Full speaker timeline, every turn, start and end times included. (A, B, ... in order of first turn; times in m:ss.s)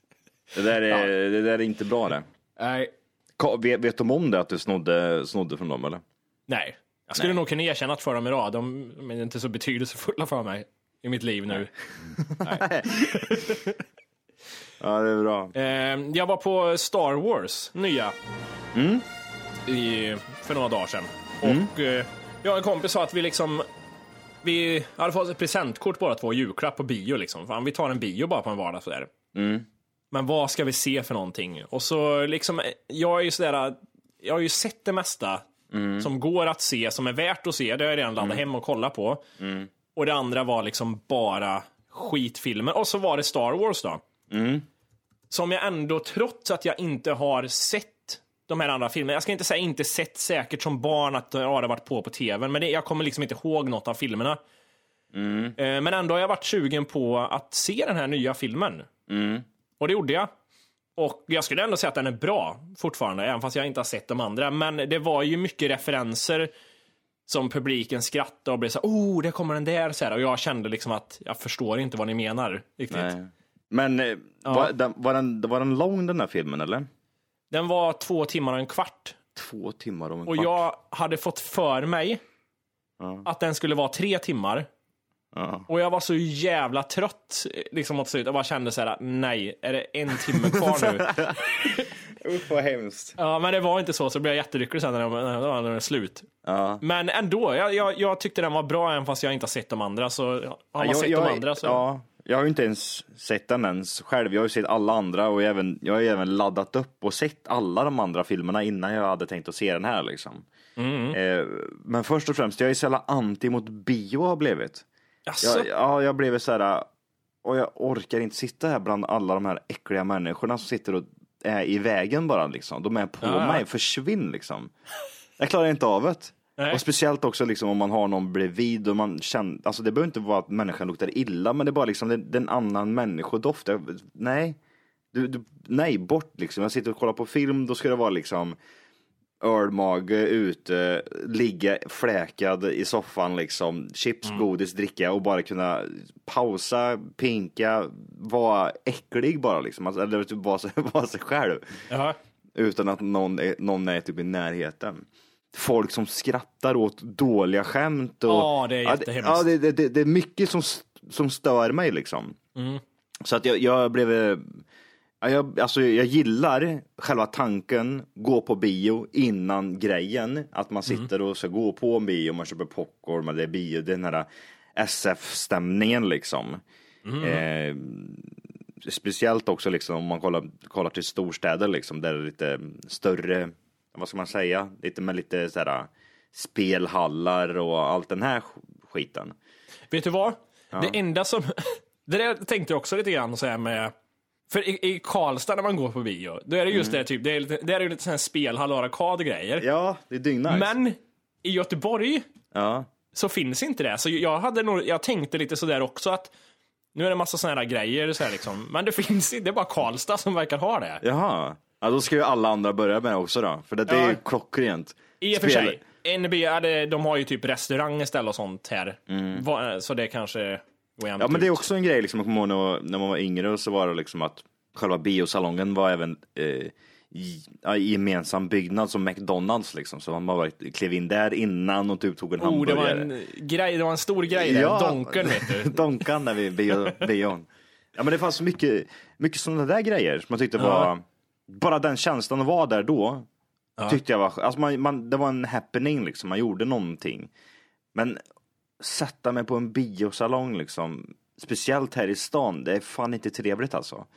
0:00.5-0:02.3 A
0:02.6-0:02.9 B
0:03.4-0:06.0 A
0:06.5-0:11.7 B
0:12.2-0:13.6 A
0:12.4-0:13.7 B
0:14.8-0:15.5 A
0:15.5-0:18.2 B
0:18.7-0:19.0 A
0:19.7-0:23.7 B
0:21.4-0:21.7 A
0:24.4-0:29.1 B
0:29.3-0:29.7 A
0:30.1-0:35.5 B
0:35.7-0:36.1 A
0:36.0-0:39.2 B
0:39.4-0:39.7 A
0:39.9-0:44.0 B
0:44.3-0:44.7 A
0:45.3-0:54.4 B
0:55.1-0:55.6 A
0:55.6-0:58.9 B
0:59.1-0:59.4 A
0:59.8-1:00.3 B
1:01.0-1:06.5 B
1:07.3-1:13.2 B
1:12.9-1:16.9 A
1:14.4-1:14.7 B
1:17.5-1:19.2 B
1:19.4-1:20.6 A
1:20.3-1:22.2 B
1:23.0-1:23.3 A
1:23.2-1:24.7 B
1:25.3-1:25.7 A
1:25.7-1:31.8 B
1:30.3-1:33.2 A
1:33.2-1:36.3 B
1:36.4-1:36.8 A
1:36.8-1:41.8 B
1:40.8-1:50.5 A
1:50.8-1:51.2 B
1:51.1-1:54.8 A
1:55.3-1:55.7 B
1:55.4-1:56.9 A
1:57.4-2:04.7 A
2:03.2-2:03.6 B
2:05.4-2:14.6 A
2:06.6-2:06.8 B
2:15.1-2:18.6 A
2:19.4-2:31.6 A
2:31.9-2:32.2 B
2:32.6-2:42.4 A
2:38.3-2:39.5 B
2:42.6-2:42.8 B
2:43.2-2:44.6 A
2:45.2-2:56.6 A
2:57.1-2:57.4 B
2:57.2-3:09.4 A
3:09.9-3:13.9 B
3:10.7-3:11.0 A
3:14.5-3:19.7 B
3:16.7-3:17.0 A
3:19.6-3:20.7 A
3:20.5-3:22.2 B
3:22.5-3:22.9 A
3:23.1-3:26.3 B
3:27.0-3:31.0 B
3:31.0-3:35.8 A
3:33.9-3:34.2 B
3:35.2-3:41.6 B
3:39.1-3:39.4 A
3:41.2-3:53.1 A
3:52.4-3:55.8 B
3:54.3-4:03.3 A
4:00.6-4:00.9 B
4:03.9-4:07.3 A
4:07.9-4:08.2 A
4:08.8-4:14.1 A